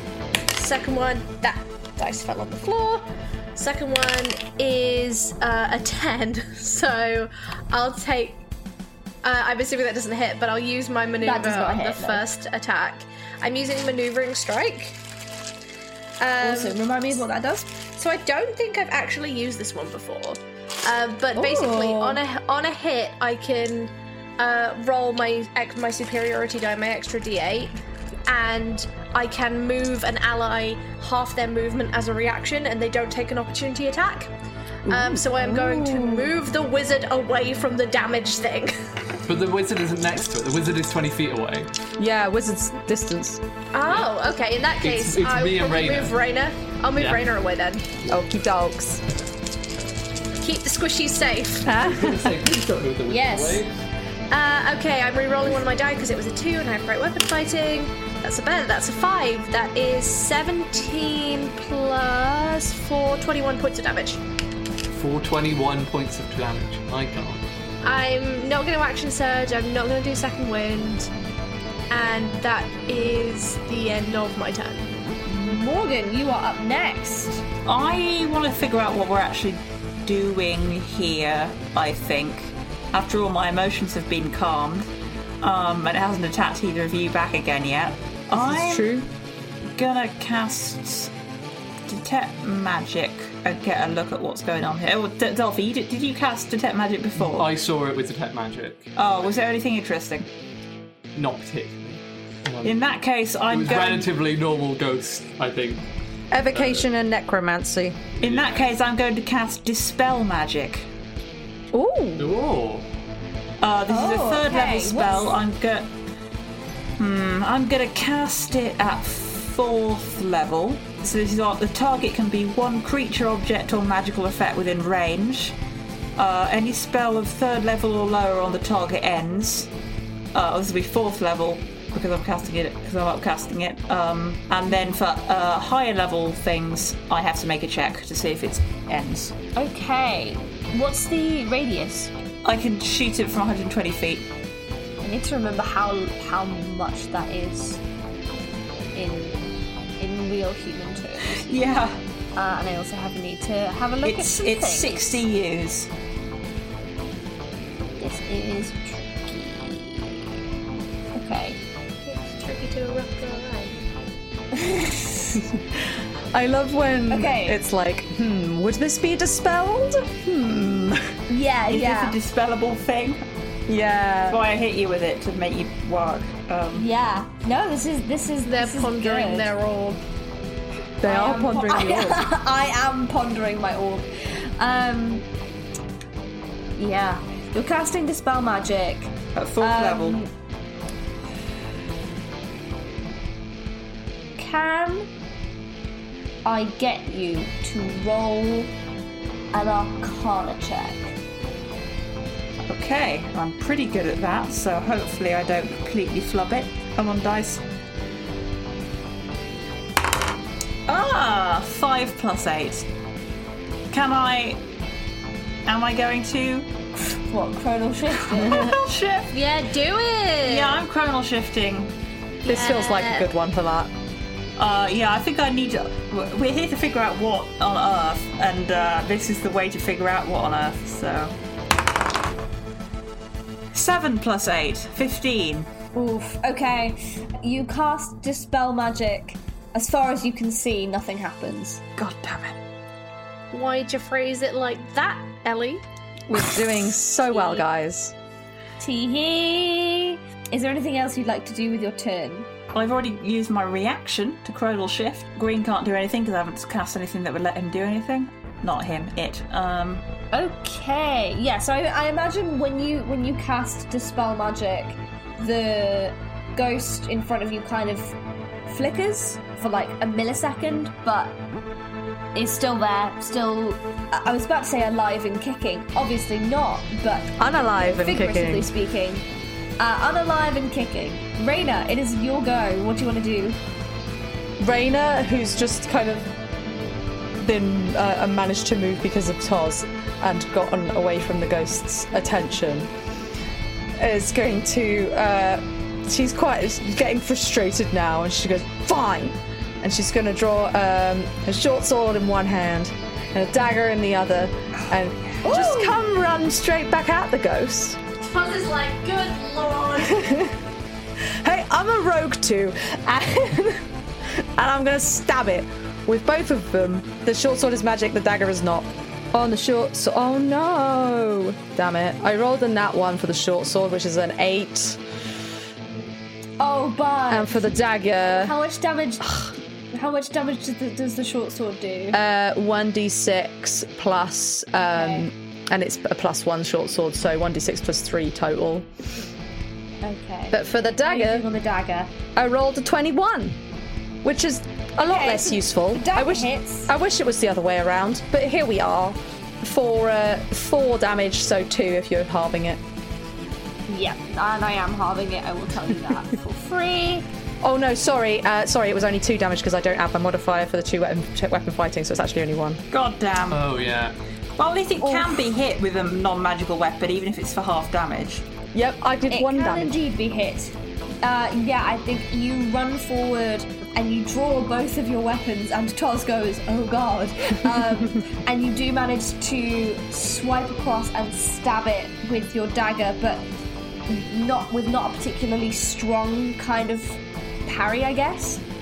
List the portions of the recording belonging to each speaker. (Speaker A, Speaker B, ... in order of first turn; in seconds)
Speaker A: 0.5-8.4, 9.2-15.0, 16.2-16.8, 17.9-27.7, 28.3-34.3, 34.9-38.7, 43.7-47.9, 50.4-51.7, 54.3-64.2, 67.8-71.1, 71.9-74.9, 162.0-163.8, 178.4-180.0, 219.3-220.8, 222.4-223.2, 243.5-245.8, 308.2-310.3
Speaker B: 11.2-12.2, 16.4-17.8, 21.3-22.2, 53.1-53.6, 75.3-77.4, 113.9-115.3, 139.6-142.1, 145.0-147.8, 148.9-149.4, 150.0-151.5, 152.3-155.1, 158.0-160.4, 161.1-161.6, 164.5-165.3, 167.1-167.6, 171.3-172.2, 176.7-179.5, 181.0-185.2, 186.8-190.3, 194.4-195.1, 196.4-198.7, 199.5-201.2, 217.1-218.8, 235.9-241.8, 247.3-247.6, 248.8-252.5, 260.3-268.1, 268.7-271.4, 272.3-279.2, 279.8-283.6, 305.4-306.0, 326.6-329.3, 329.9-332.2, 334.9-335.3, 340.0-342.1, 345.0-346.9, 353.9-357.2, 369.3-383.4, 384.1-388.6
Speaker C: 34.9-36.3, 42.0-43.4, 48.1-49.0, 51.6-52.4, 88.3-89.1, 106.3-108.0, 111.7-112.3, 166.3-171.0, 173.7-174.4, 181.0-182.3, 222.5-223.9, 246.3-248.1, 277.4-278.7, 284.6-286.3, 287.4-292.9, 294.0-308.0, 310.0-310.5, 311.4-325.0, 327.3-328.5, 332.1-338.9, 340.5-341.4, 342.3-343.6, 344.2-352.8, 357.6-362.8, 368.7-370.0
Speaker D: 39.2-41.7, 43.8-44.2, 44.8-46.2, 46.9-47.2, 51.8-53.8, 64.8-67.4, 97.2-99.3, 101.1-102.8, 103.5-105.8, 106.5-106.8, 108.2-108.7, 112.2-112.8, 363.5-364.1
Speaker E: 77.7-84.9, 85.4-88.9, 89.7-91.1, 91.9-97.5, 99.0-100.3, 102.6-104.1, 108.2-110.9, 113.6-115.9, 117.0-125.5, 126.2-129.7, 130.3-139.3, 142.4-144.3, 151.4-152.0, 154.0-155.9, 171.7-173.2, 174.3-176.9, 189.3-190.2, 202.7-207.6, 210.9-212.8, 213.9-214.6, 215.7-216.7, 218.2-219.3, 220.4-221.9, 224.6-231.3, 233.7-235.7, 242.0-242.6, 252.7-260.0, 362.9-363.7, 364.6-368.4